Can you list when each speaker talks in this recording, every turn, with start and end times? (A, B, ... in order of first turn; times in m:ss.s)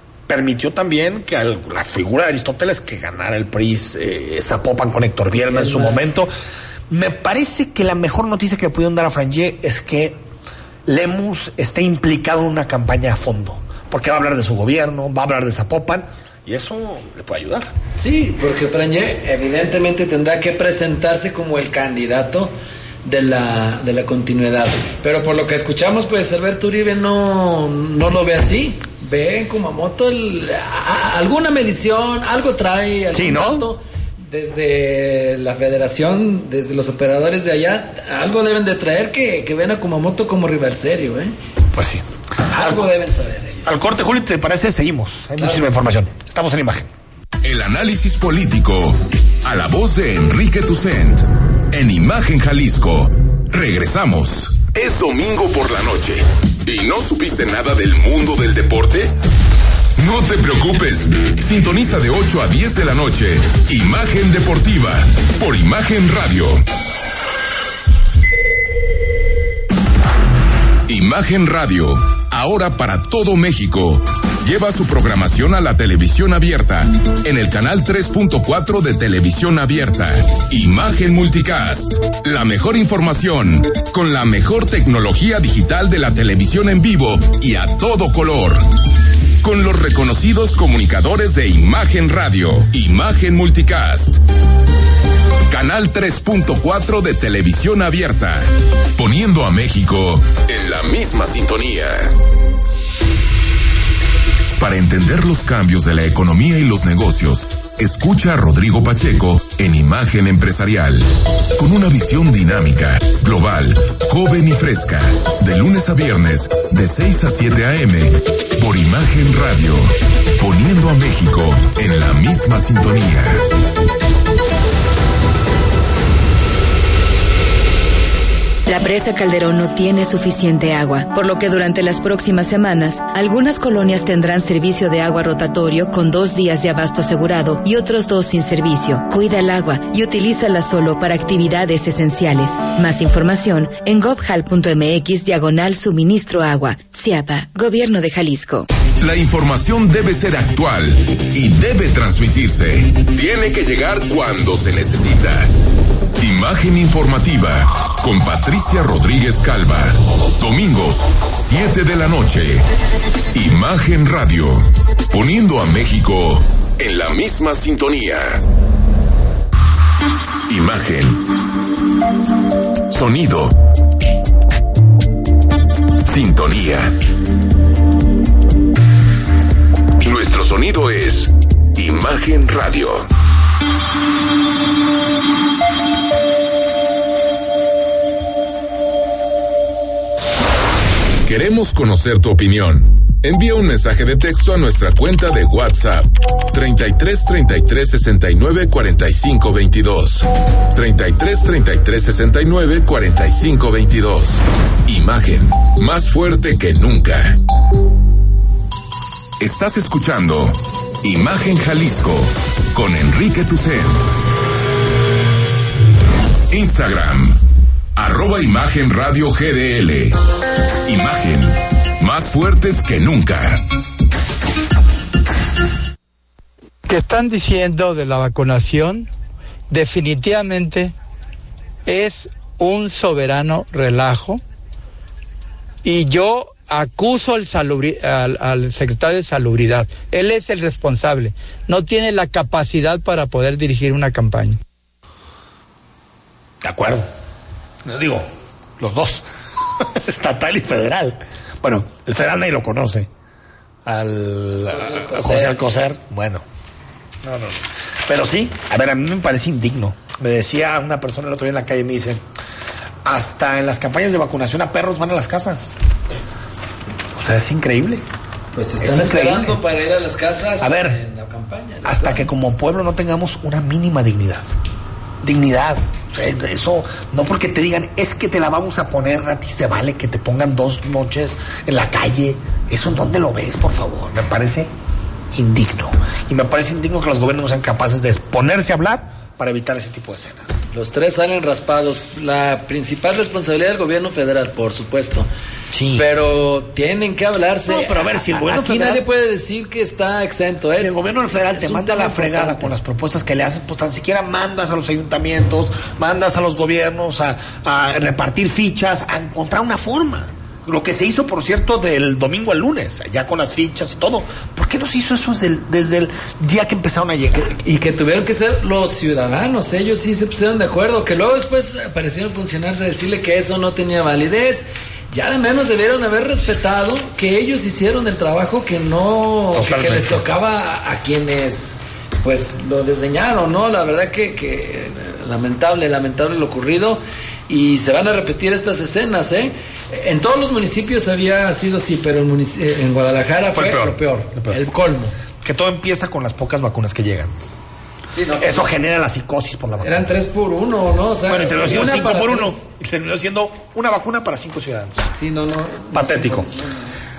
0:00.3-0:06.3 A
0:05.4-0:06.0 B
0:06.9-0:10.2 A
0:10.8-0:17.7 A
0:18.0-0:22.5 B
0:23.0-0:41.3 B
0:33.1-0:33.7 A
0:41.7-0:42.9 A
0:42.5-0:43.7 B
0:43.6-0:46.9 A
0:45.4-0:45.9 B
0:47.4-0:59.1 C
1:00.0-1:06.6 C
1:10.9-1:28.6 C
1:29.4-1:34.2 C
1:35.5-1:42.1 C
1:44.6-2:03.4 C
2:08.7-2:28.7 D
2:29.0-2:35.5 C
2:36.2-2:42.6 C
2:43.3-2:48.4 C
2:50.5-2:51.2 C
2:52.9-2:53.5 C
2:56.0-2:56.9 C
3:00.0-3:03.1 C
3:11.2-3:27.4 C
3:29.4-3:34.0 C
3:36.5-3:37.4 C
3:38.0-3:40.2 C
3:40.8-3:43.6 C
3:46.9-3:49.1 E
3:49.7-3:50.9 E
3:51.8-3:54.4 E
3:55.8-4:04.6 E
4:06.6-4:07.1 A
4:07.8-4:08.3 A
4:08.8-4:09.2 A
4:09.8-4:13.1 A
4:13.8-4:16.4 A
4:14.7-4:15.7 B
4:17.2-4:22.2 A
4:23.0-4:25.8 A
4:27.1-4:28.0 A
4:28.5-4:32.3 B
4:28.8-4:29.6 A
4:30.6-4:31.0 A
4:31.8-4:34.4 A
4:35.2-4:44.7 A
4:45.3-4:50.6 A
4:50.7-4:55.3 B
4:55.7-4:56.0 A
4:56.0-5:00.9 B
4:57.7-4:59.0 A
5:00.7-5:17.5 A
5:01.5-5:02.7 B
5:17.3-5:45.1 B
5:29.5-5:30.2 A
5:43.5-5:44.6 A
5:45.4-5:47.3 A
5:48.1-5:48.7 B
5:48.4-5:50.1 A
5:49.8-5:52.6 B
5:51.3-5:55.1 A
5:55.1-5:56.9 B
5:55.9-5:56.5 A